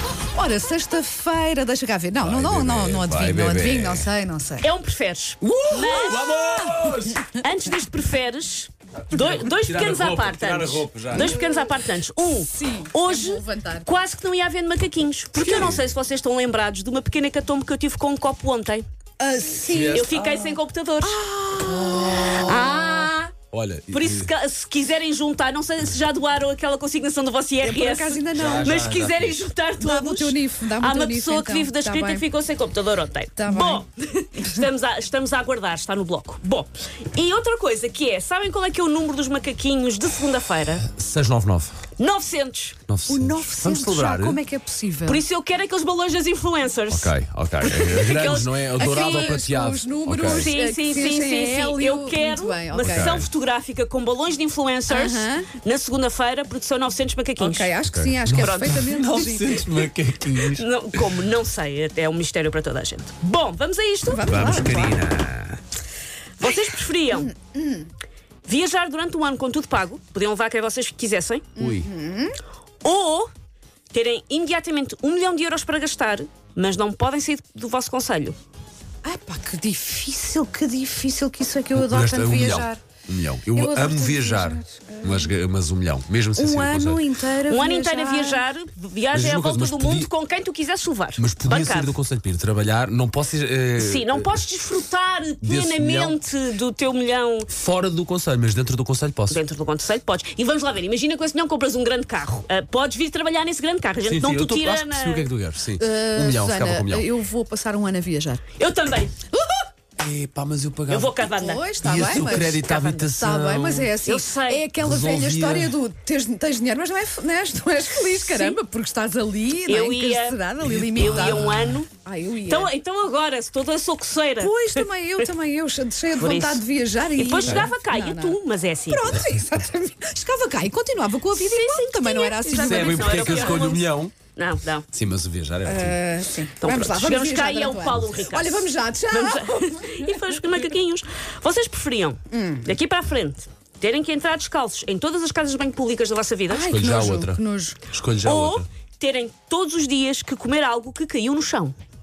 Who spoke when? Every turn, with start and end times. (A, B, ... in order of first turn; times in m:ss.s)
0:00.4-0:04.7 A
0:02.2-0:04.1 B
0:04.6-0:06.4 C
0:05.4-0:07.2 B
0:05.8-0:07.2 A
0:07.4-0:18.8 C
0:09.1-0:11.4 B
0:11.1-0:11.7 A
0:12.3-0:13.9 A
0:15.4-0:15.9 B
0:19.2-0:23.1 A
0:19.6-0:20.3 B
0:19.9-0:23.3 C
0:21.7-0:22.7 B
0:23.5-0:24.3 B
0:23.9-0:40.8 C
0:27.6-0:28.9 A
0:28.4-0:29.5 B
0:29.8-0:32.3 A
0:33.4-0:33.8 A
0:40.8-0:41.8 B
0:42.0-0:42.8 C
0:42.9-0:44.4 B
0:43.1-0:45.2 A
0:45.0-0:49.5 C
0:46.9-0:50.5 B
0:48.7-0:53.2 A
0:50.2-0:57.7 C
0:52.8-0:53.3 B
0:54.9-0:55.5 A
0:57.4-0:59.8 A
0:57.9-1:01.2 B
0:58.3-0:58.8 C
1:00.4-1:04.4 C
1:04.1-1:05.0 A
1:04.3-1:05.6 B
1:06.4-1:07.3 C
1:07.1-1:07.9 A
1:08.4-1:11.5 C
1:11.6-1:12.3 A
1:11.6-1:11.9 B
1:12.8-1:13.3 C
1:13.9-1:18.4 C
1:19.0-1:22.8 A
1:21.7-1:27.0 B
1:23.5-1:25.3 A
1:26.4-1:28.4 A
1:27.5-1:32.0 C
1:29.1-1:30.1 B
1:31.2-1:34.5 B
1:33.8-1:37.5 C
1:35.4-1:36.2 B
1:37.5-1:39.4 B
1:39.3-1:45.3 C
1:44.0-1:47.1 B
1:45.8-1:48.4 A
1:48.6-1:49.1 C
1:49.3-1:49.7 A
1:50.0-1:53.9 B
1:50.9-1:53.1 C
1:51.2-2:02.7 A
1:54.0-1:54.7 C
1:54.8-1:55.8 B
1:58.1-1:58.6 C
1:59.7-2:00.4 C
2:00.6-2:01.8 B
2:00.9-2:01.9 C
2:02.5-2:04.8 C
2:04.4-2:13.7 A
2:06.1-2:09.2 C
2:07.4-2:07.7 B
2:11.3-2:14.9 C
2:12.5-2:14.1 B
2:14.9-2:16.0 B
2:15.6-2:20.3 A
2:16.6-2:26.8 C
2:22.3-2:22.7 A
2:26.5-2:27.8 A
2:26.6-2:28.7 B
2:28.2-2:31.8 C